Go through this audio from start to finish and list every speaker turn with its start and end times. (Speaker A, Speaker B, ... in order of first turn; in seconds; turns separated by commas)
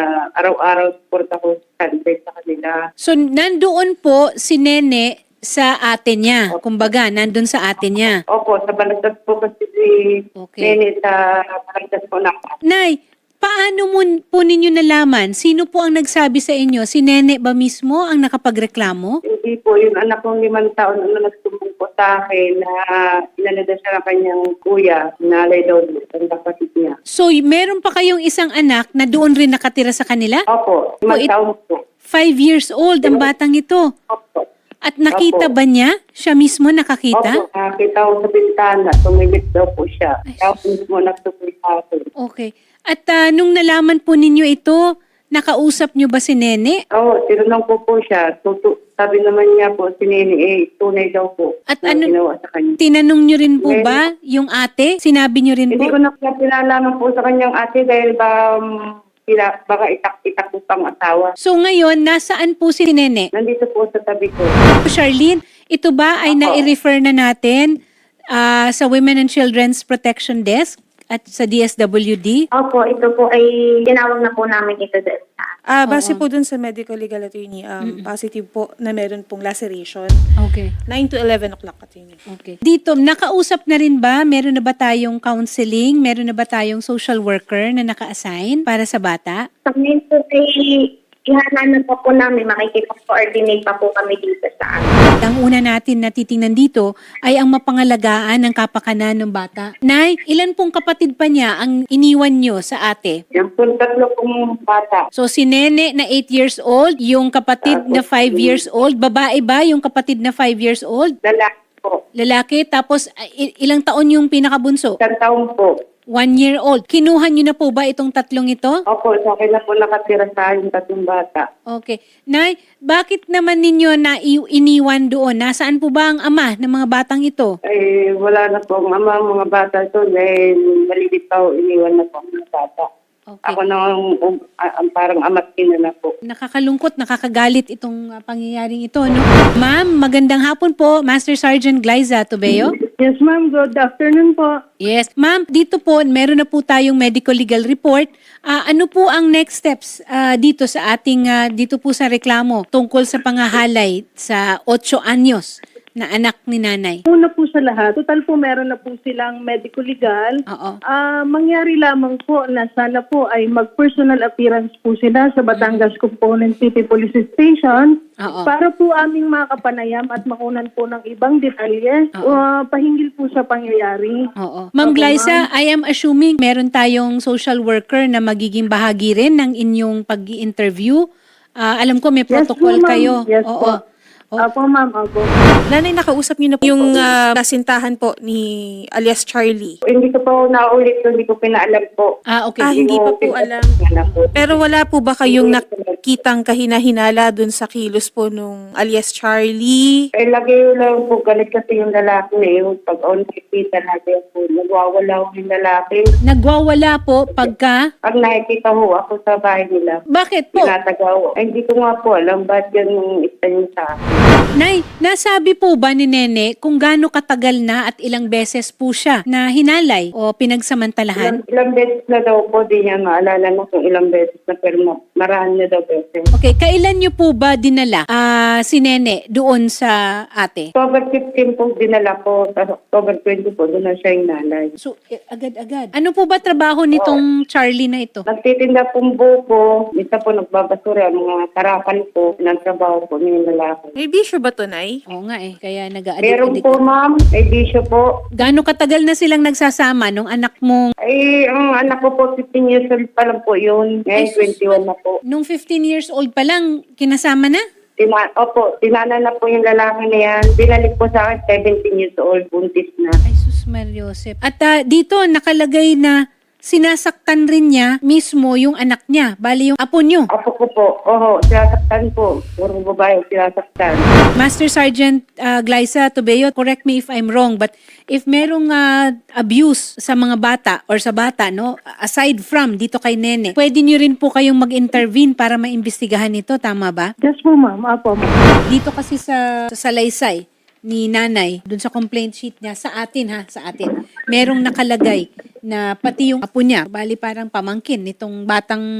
Speaker A: 0.4-2.7, Speaker B: 3.0-8.2, Speaker A: 8.3-10.0, Speaker B: 10.4-10.8, Speaker A: 10.6-12.6, Speaker B: 12.7-19.2, Speaker A: 19.3-27.0, Speaker B: 27.1-30.4, Speaker A: 30.5-31.8, Speaker B: 32.1-33.9, Speaker A: 34.1-34.5, Speaker B: 34.8-37.4, Speaker A: 35.1-35.5, Speaker A: 37.1-42.1, Speaker B: 40.3-40.6, Speaker B: 42.2-44.8, Speaker B: 45.3-46.8, Speaker A: 47.0-52.8, Speaker B: 51.7-52.1, Speaker B: 52.8-55.9, Speaker A: 53.6-54.0, Speaker A: 55.7-58.6, Speaker A: 59.3-61.3, Speaker B: 61.4-63.3, Speaker A: 63.4-64.5, Speaker B: 64.8-67.7, Speaker A: 66.3-66.6, Speaker B: 68.3-72.4, Speaker C: 72.6-75.5, Speaker D: 75.7-80.1, Speaker B: 75.9-76.2, Speaker B: 80.4-80.7, Speaker D: 80.9-82.2, Speaker B: 82.3-89.4, Speaker C: 89.7-94.9, Speaker B: 95.2-103.2, Speaker A: 103.3-105.0, Speaker B: 105.2-111.1, Speaker A: 107.6-108.6, Speaker A: 111.2-112.0, Speaker B: 112.2-114.9, Speaker A: 115.0-115.7, Speaker B: 116.1-118.7, Speaker A: 118.9-121.5, Speaker B: 121.7-127.5, Speaker A: 127.7-132.9, Speaker B: 133.3-133.6, Speaker A: 133.4-136.1, Speaker B: 136.2-142.7, Speaker E: 143.0-144.6, Speaker B: 144.8-157.0, Speaker E: 157.1-174.3, Speaker B: 160.5-160.8, Speaker B: 165.5-165.9, Speaker B: 168.2-168.5, Speaker B: 174.4-181.0, Speaker E: 174.8-175.4, Speaker B: 181.6-183.7, Speaker E: 182.3-183.8, Speaker E: 184.4-185.3, Speaker D: 185.7-189.8, Speaker A: 189.9-192.1, Speaker B: 192.3-192.7, Speaker D: 192.6-193.7, Speaker A: 192.8-194.3, Speaker B: 194.1-194.6, Speaker D: 194.3-200.0, Speaker A: 195.3-196.0, Speaker A: 200.2-206.1, Speaker B: 206.2-207.8, Speaker A: 208.1-210.0, Speaker B: 210.1-210.7, Speaker A: 210.5-214.3, Speaker B: 214.6-221.4, Speaker A: 221.2-226.3, Speaker B: 226.3-230.7, Speaker A: 230.8-234.7, Speaker B: 234.8-238.2, Speaker A: 238.3-243.9, Speaker D: 244.0-245.0, Speaker B: 245.1-246.8, Speaker A: 246.2-248.1, Speaker B: 248.4-250.9, Speaker A: 251.1-255.2, Speaker B: 254.1-257.6, Speaker A: 258.0-263.2, Speaker B: 263.2-266.1, Speaker B: 266.7-270.3, Speaker A: 270.3-274.1, Speaker B: 274.4-287.1, Speaker E: 287.2-288.4, Speaker B: 288.7-298.8